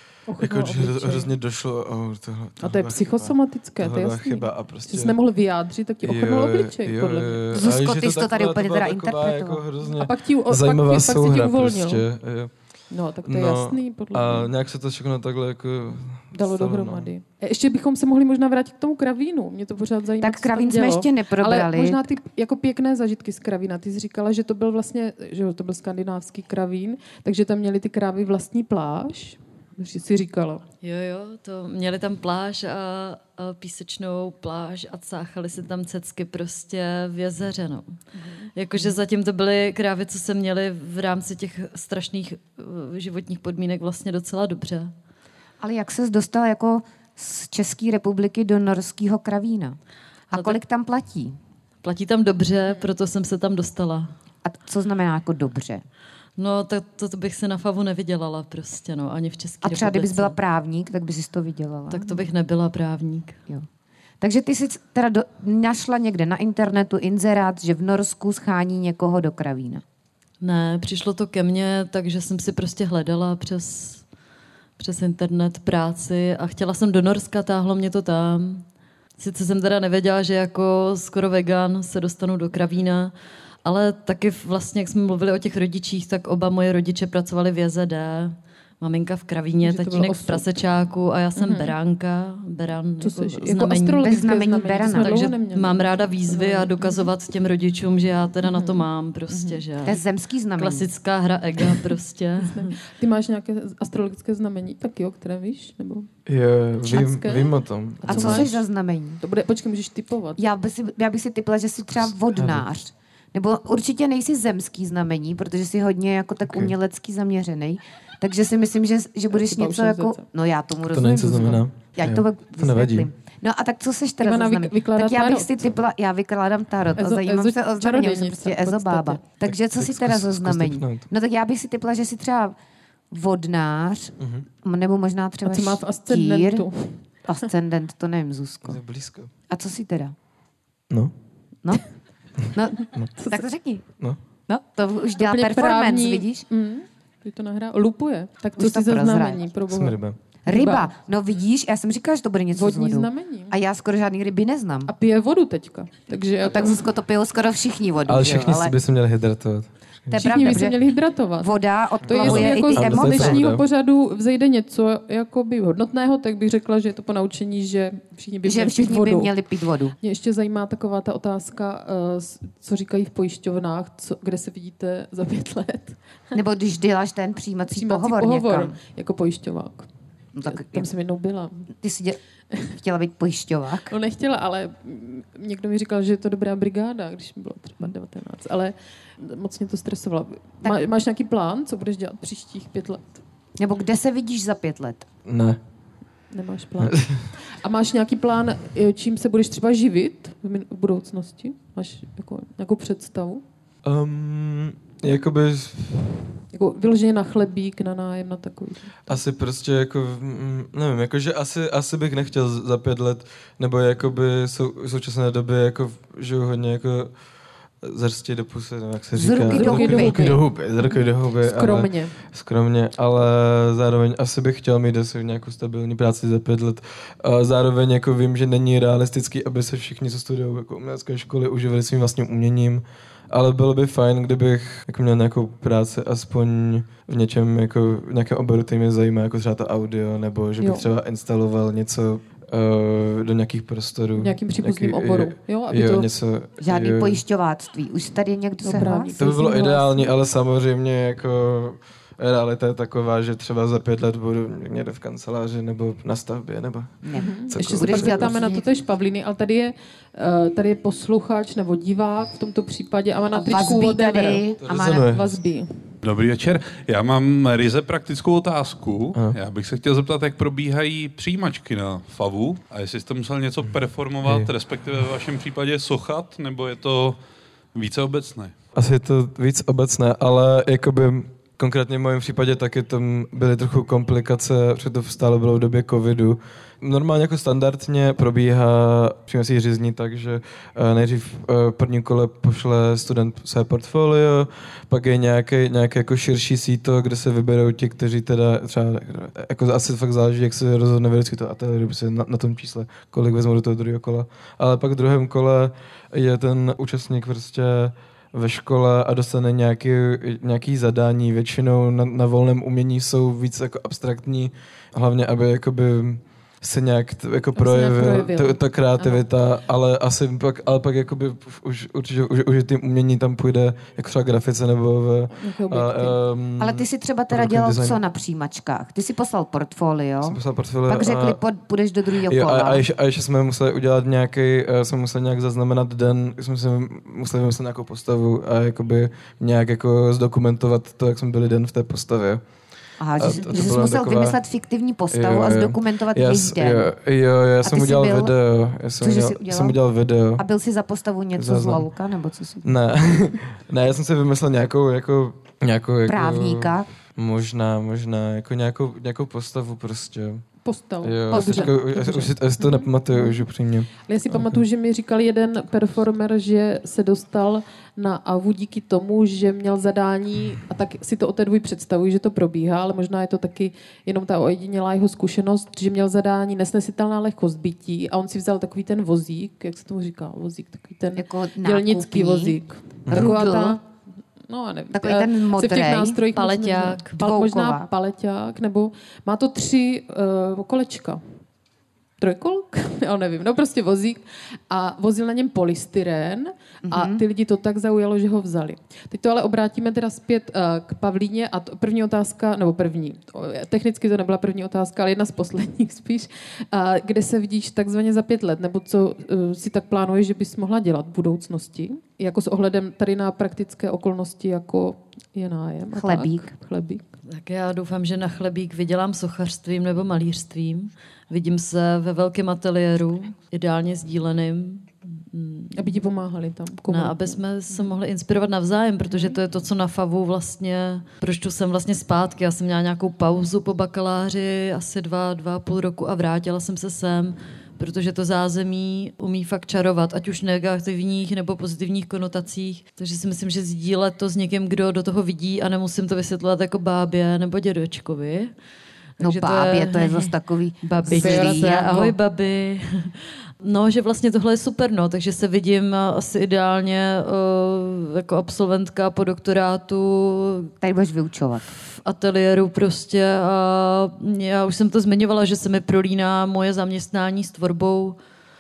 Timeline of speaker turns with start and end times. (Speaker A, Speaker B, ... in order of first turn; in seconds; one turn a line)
Speaker A: 0.3-1.3
Speaker B: 0.4-5.2
Speaker A: 2.6-7.5
Speaker B: 6.0-12.5
Speaker C: 7.5-9.6
Speaker A: 9.9-12.1
Speaker A: 12.9-14.5
Speaker B: 13.2-17.1
Speaker A: 16.3-30.6
Speaker C: 20.2-22.0
Speaker D: 30.8-37.9
Speaker A: 38.2-38.5
Speaker D: 38.6-44.9
Speaker C: 45.6-49.8
Speaker C: 50.3-51.4
Speaker D: 50.3-50.6
Speaker D: 51.8-54.1
Speaker C: 54.4-55.8
Speaker D: 56.4-60.4
Speaker C: 59.6-62.2
Speaker D: 61.9-63.4
Speaker C: 64.2-69.8
Speaker D: 70.4-74.0
Speaker D: 74.8-78.7
Speaker D: 79.2-83.1
Speaker D: 83.6-94.3
Speaker A: 89.6-90.5
Speaker A: 91.4-91.8
Speaker A: 93.0-97.1
Speaker C: 94.0-95.2
Speaker D: 94.8-100.0
Speaker A: 98.4-99.6
Speaker C: 99.8-100.9
Speaker D: 100.6-102.7
Speaker A: 102.4-106.1
Speaker B: 106.3-108.6
Speaker A: 106.8-108.6
Speaker C: 108.1-109.2
Speaker A: 109.2-110.4
Speaker C: 110.4-132.6
Speaker B: 111.9-112.7
Speaker B: 116.5-116.7
Speaker A: 119.3-120.2
Speaker B: 120.9-123.1
Speaker A: 124.2-125.7
Speaker A: 127.0-129.2
Speaker B: 129.4-131.1
Speaker C: 133.1-136.7
Speaker B: 134.2-134.5
Speaker A: 135.4-137.0
Speaker C: 137.3-138.8
Speaker B: 138.6-139.3
Speaker C: 139.5-140.2
Speaker C: 142.5-143.9
Speaker A: 143.2-143.4
Speaker C: 144.5-146.4
Speaker A: 145.2-150.9
Speaker C: 148.6-149.4
Speaker B: 149.7-150.2
Speaker C: 150.5-154.9
Speaker A: 152.5-153.5
Speaker A: 154.9-156.8
Speaker C: 156.4-158.7
Speaker B: 158.1-160.4
Speaker C: 160.1-160.8
Speaker A: 160.1-169.3
Speaker C: 161.4-163.4
Speaker B: 162.1-163.7
Speaker C: 168.4-169.9
Speaker A: 170.0-176.0
Speaker C: 176.3-178.8
Speaker A: 177.7-179.9
Speaker C: 180.3-180.9
Speaker A: 180.4-181.7
Speaker C: 181.7-182.2
Speaker C: 182.7-183.9
Speaker A: 183.9-193.2
Speaker C: 193.6-195.1
Speaker B: 195.3-195.6
Speaker A: 196.3-197.0
Speaker B: 196.8-197.3
Speaker A: 197.6-203.4
Speaker B: 203.8-206.2
Speaker A: 206.5-209.2
Speaker B: 209.1-217.1
Speaker B: 217.8-247.2
Speaker C: 219.2-220.3
Speaker A: 219.5-222.2
Speaker A: 240.6-240.9
Speaker A: 244.2-246.1
Speaker C: 246.6-249.2
Speaker A: 248.6-250.1
Speaker B: 249.2-258.4
Speaker C: 257.0-258.7
Speaker A: 257.1-264.5
Speaker C: 263.3-265.1
Speaker B: 264.6-265.4
Speaker A: 265.1-265.8
Speaker E: 266.0-277.2
Speaker B: 274.2-274.5
Speaker E: 277.7-278.5
Speaker B: 278.8-328.0
Speaker A: 317.6-319.2
Speaker A: 325.3-326.2
Speaker C: 326.6-332.8
Speaker B: 330.2-331.4
Speaker B: 332.2-342.4
Speaker C: 343.0-346.9
Speaker B: 343.1-344.4
Speaker B: 345.1-350.4
Speaker C: 347.6-348.3
Speaker C: 349.0-349.8
Speaker C: 350.4-352.7
Speaker B: 351.3-351.9
Speaker B: 352.6-360.4
Speaker C: 356.1-356.9
Speaker A: 360.6-363.4
Speaker B: 361.0-364.6
Speaker C: 361.3-361.7
Speaker A: 364.1-383.9
Speaker C: 381.2-382.6
Speaker B: 383.1-383.4
Speaker C: 383.1-383.8
Speaker A: 384.5-391.2
Speaker C: 384.9-386.2
Speaker D: 386.4-387.2
Speaker C: 387.2-387.9
Speaker A: 392.2-417.0
Speaker C: 396.9-397.2
Speaker C: 415.9-416.5
Speaker D: 417.3-425.9
Speaker A: 425.7-427.8
Speaker D: 426.9-448.5
Speaker A: 429.1-429.4
Speaker D: 449.2-450.3
Speaker C: 449.2-452.1
Speaker D: 450.8-460.7
Speaker A: 451.1-451.9
Speaker C: 460.8-461.7
Speaker D: 461.7-468.2